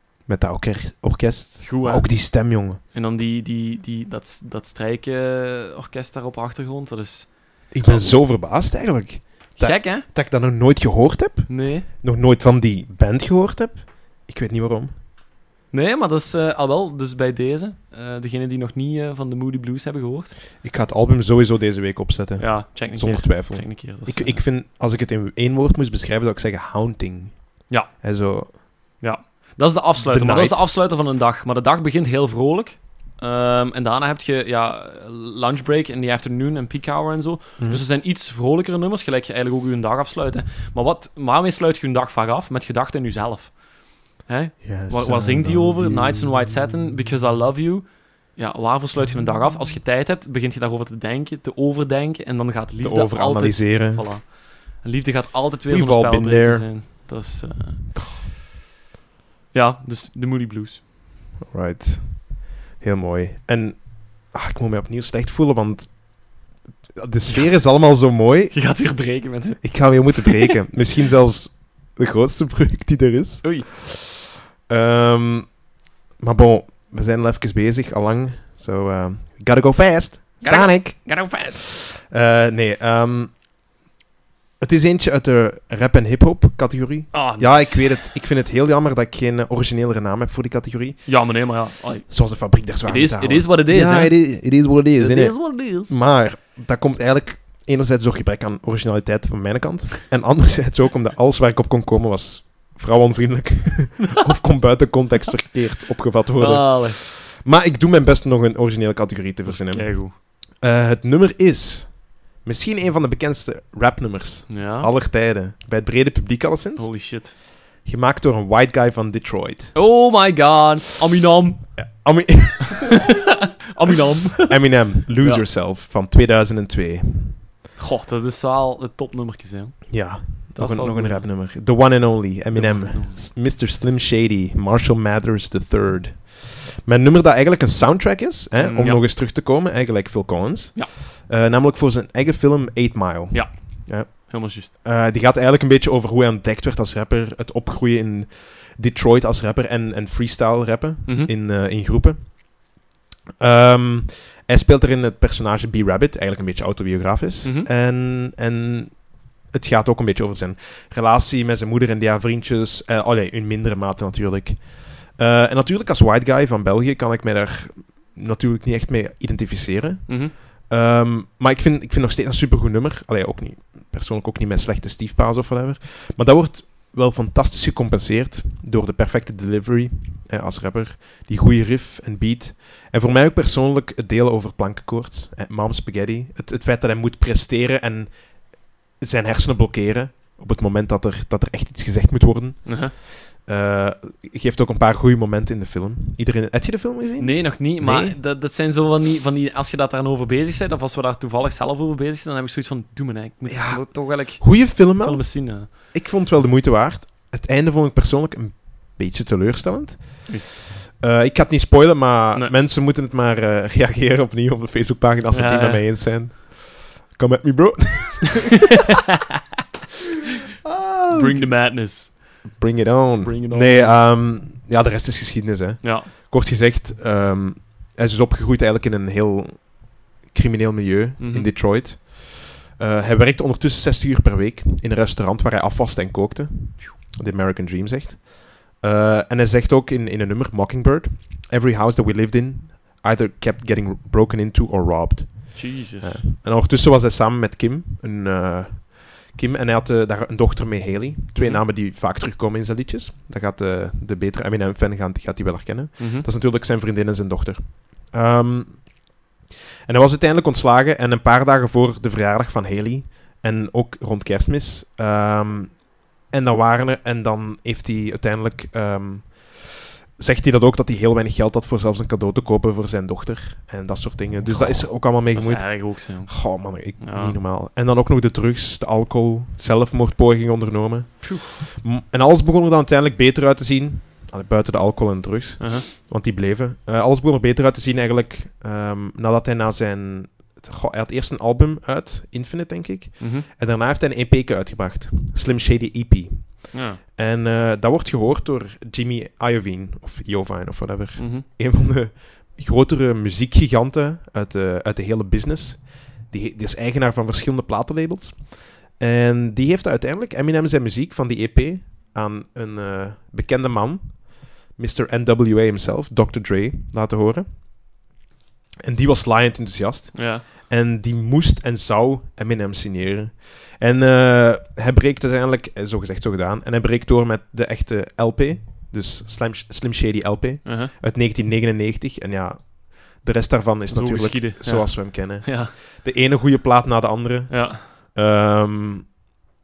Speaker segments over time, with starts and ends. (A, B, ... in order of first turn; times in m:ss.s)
0:00.2-0:02.8 A
0:01.6-0:08.2 B
0:07.7-0:14.9 A
0:09.5-0:10.0 B
0:11.5-0:11.9 B
0:15.7-0:20.4 B
0:20.6-0:28.6 A
0:22.4-0:24.4 B
0:27.7-0:28.0 B
0:29.0-0:58.3 B
0:30.0-0:30.6 A
0:44.6-0:46.3 A
0:52.8-0:54.1 A
0:55.7-0:56.7 A
0:59.5-1:00.8 B
1:01.4-1:09.0 A
1:07.3-1:10.6 B
1:09.6-1:14.0 A
1:13.4-1:13.7 B
1:14.7-1:21.5 A
1:20.4-1:21.6 B
1:22.1-1:23.3 A
1:24.6-1:59.8 A
1:27.1-1:28.1 B
1:31.0-1:35.9 B
1:46.4-1:47.0 B
1:49.4-1:50.1 B
1:54.5-1:54.9 B
1:56.8-1:57.4 B
1:59.7-2:01.9 B
2:02.0-2:03.0 A
2:02.9-2:05.5 B
2:04.4-2:07.4 A
2:07.8-2:11.3 B
2:09.9-2:32.6 A
2:12.5-2:13.2 B
2:18.6-2:19.0 B
2:23.3-2:24.7 B
2:31.0-2:31.3 B
2:33.4-3:18.2 A
2:37.4-2:37.7 B
2:50.1-2:50.3 B
3:12.6-3:12.9 B
3:17.2-3:25.7 B
3:23.5-3:38.6 A
3:35.3-3:35.9 B
3:40.6-4:19.1 A
3:41.1-3:42.6 B
3:43.2-3:44.0 B
3:45.8-3:46.1 B
3:51.2-3:51.5 B
4:05.5-4:06.2 B
4:11.4-4:11.6 B
4:16.0-4:16.2 B
4:19.9-5:18.0 A
4:34.4-4:37.4 B
4:41.2-4:41.5 B
4:45.6-4:45.9 B
4:53.2-4:53.5 B
4:56.7-4:57.0 B
5:01.2-5:01.4 B
5:18.8-5:39.2 A
5:20.1-5:20.4 B
5:30.6-5:30.9 B
5:33.9-5:35.7 B
5:37.5-5:37.8 B